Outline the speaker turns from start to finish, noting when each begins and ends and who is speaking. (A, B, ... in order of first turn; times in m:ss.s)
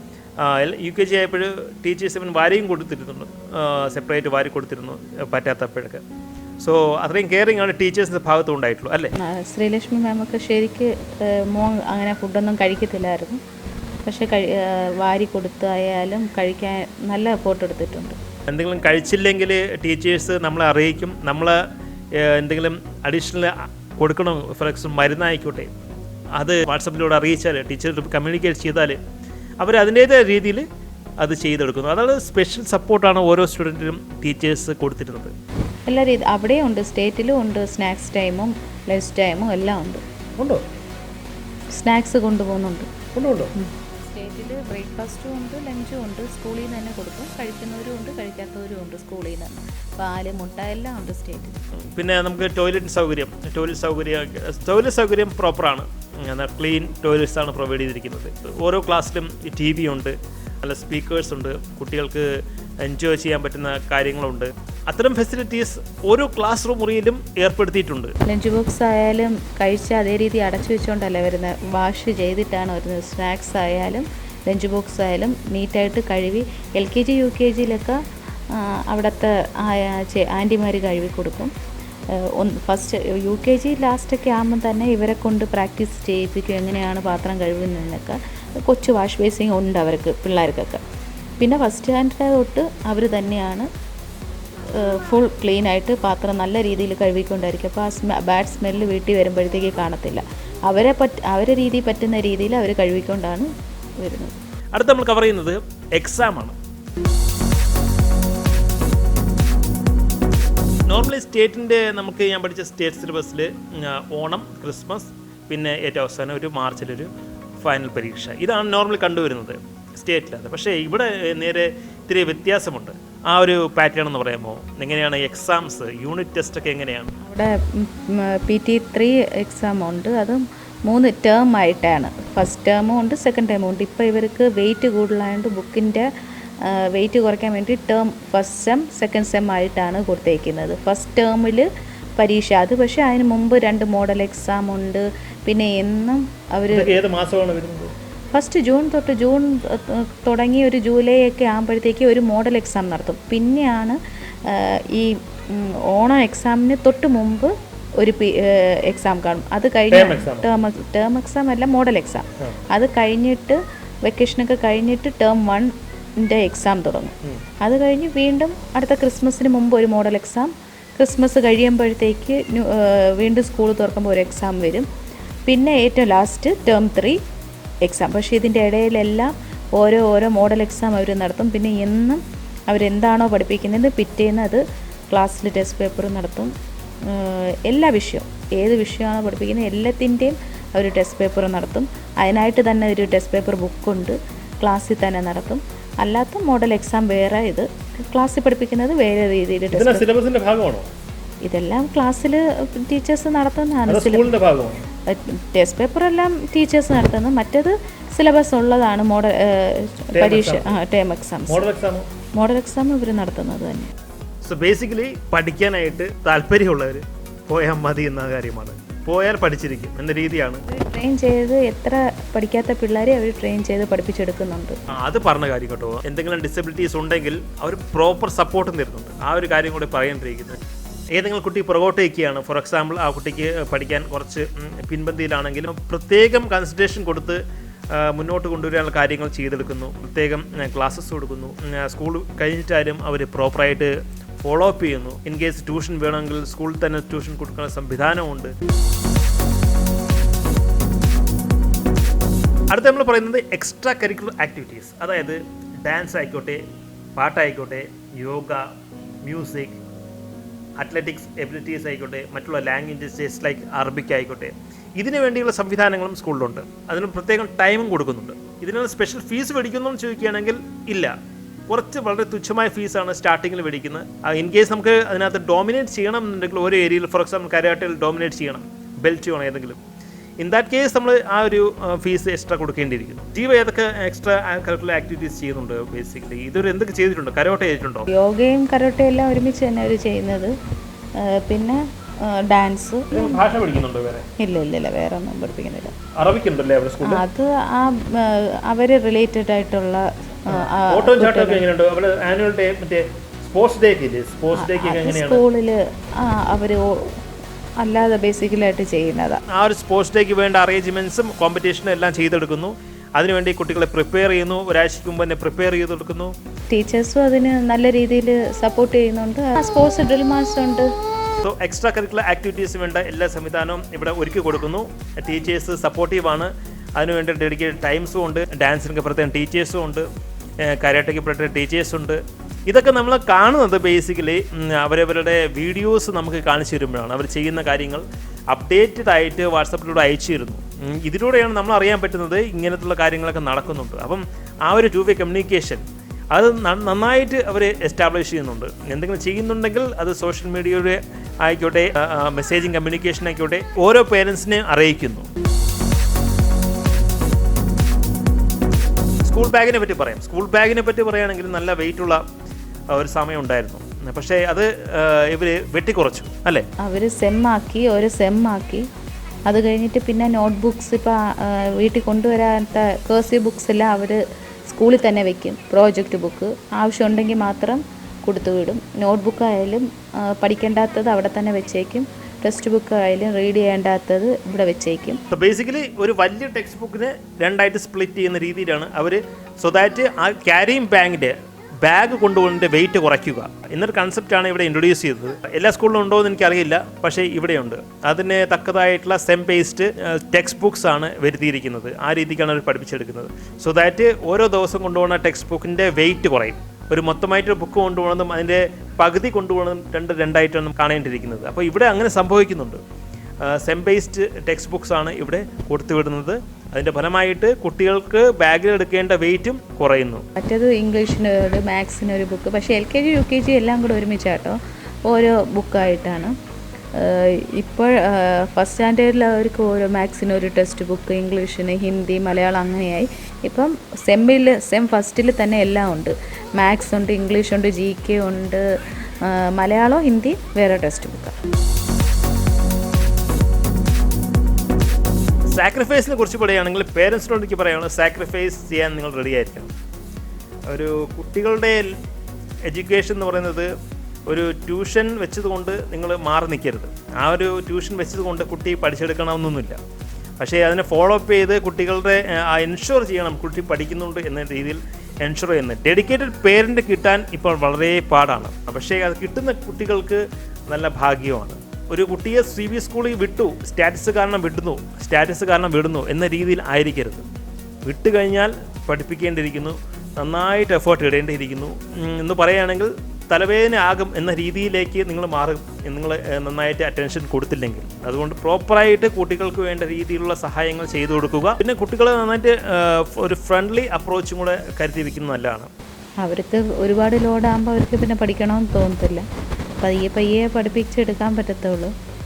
0:00.4-0:06.0 A
0:06.6-0:09.1 A
0:09.2-0:13.4 B
0:14.0-0:18.2 B
0:18.5-0:21.6 A
0:22.1-0:25.7 A
0:26.4-0:29.0 A
0:29.6-0:30.6 A
0:31.2-0:35.3 A
0:35.9-0:40.0 B
0:40.4-0:40.6 A
0:41.7-0:42.9 B
0:43.1-0:43.5 A
0:43.6-0:51.6 B
0:51.7-1:08.1 A
1:08.2-1:21.5 B
1:22.1-1:30.8 B
1:31.4-1:33.7 B
1:34.7-1:44.4 B
1:44.7-1:46.6 A
1:50.9-1:57.1 A
1:57.6-2:07.1 A
2:07.2-2:16.1 B
2:16.6-2:27.0 B
2:26.7-2:27.9 A
2:28.3-2:54.9 B
2:39.9-2:40.5 A
2:55.5-2:57.2 B
2:57.8-3:20.1 B
3:19.7-3:20.9 A
3:21.4-3:24.3 B
3:23.9-3:24.8 A
3:25.1-3:31.6 B
3:30.1-3:30.8 A
3:31.5-3:32.1 A
3:32.3-3:33.9 B
3:34.4-3:40.6 A
3:40.7-3:44.8 B
3:44.9-3:50.6 A
3:51.1-3:57.4 A
3:57.9-4:03.9 A
4:04.4-4:08.5 A
4:12.7-4:16.6 A
4:17.2-4:18.7 A
4:19.2-4:19.8 A
4:20.8-4:31.1 A
4:31.7-4:39.8 A
4:40.4-4:48.1 A
4:48.1-4:50.5 B
4:51.2-4:53.4 B
4:53.1-4:54.2 A
4:54.4-4:56.0 B
4:56.2-4:57.2 A
4:57.0-5:01.6 B
5:00.5-5:05.4 A
5:04.5-5:07.2 B
5:07.8-5:09.4 B
5:09.5-5:16.3 A
5:16.7-5:20.9 B
5:21.4-5:30.0 A
5:30.6-5:55.3 A
5:59.2-6:02.2 A
6:02.9-6:06.6 A
6:06.8-6:08.8 B
6:09.5-6:25.2 B
6:25.3-6:52.8 A
6:53.4-7:00.2 A
7:00.4-7:06.3 B
7:06.9-7:18.6 B
7:19.2-7:21.4 B
7:25.5-7:29.7 A
7:30.7-7:32.0 A
7:32.6-7:33.7 A
7:34.3-7:39.8 A
7:40.4-7:57.2 A
7:57.8-8:15.7 A
8:16.2-8:19.2 B
8:19.8-8:21.9 B